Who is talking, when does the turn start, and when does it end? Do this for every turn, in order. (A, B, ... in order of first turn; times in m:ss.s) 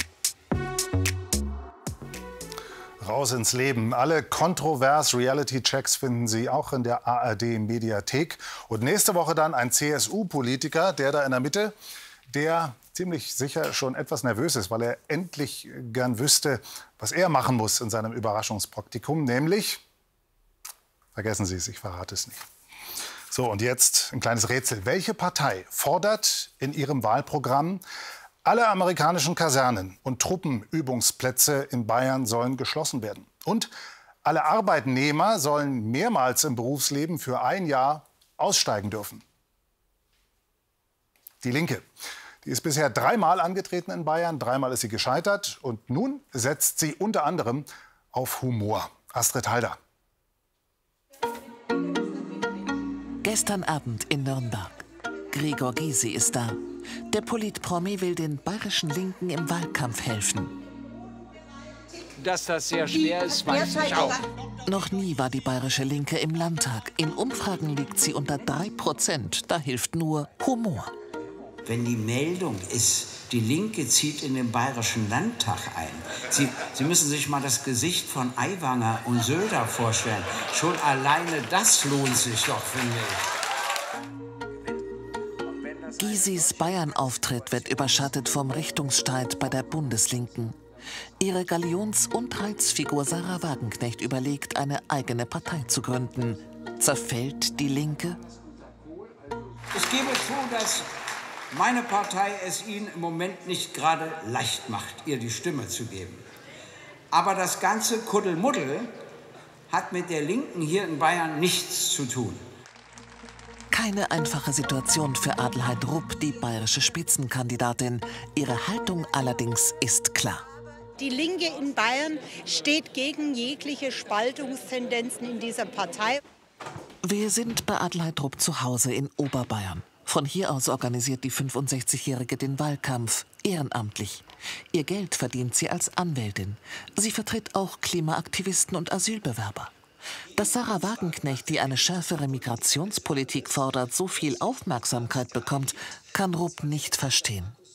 0:03.0-0:11.7 A
0:12.3-0:19.8 A
0:21.1-0:22.4 A
0:23.3-0:27.8 A
0:28.4-0:33.7 A
0:34.2-0:39.2 A
0:41.4-0:41.9 A
0:42.4-0:49.8 A
0:53.2-1:00.5 B
1:02.2-1:04.2 C
1:02.9-1:04.2 D
1:04.6-1:10.9 B
1:11.6-1:23.3 E
1:26.0-1:30.6 B
1:31.2-1:38.2 B
1:39.7-1:40.9 E
1:41.5-1:46.3 E
1:47.1-1:48.9 E
1:49.7-1:52.4 E
1:53.7-2:00.4 B
2:01.0-2:06.2 D
2:07.0-2:19.7 B
2:20.3-2:27.5 B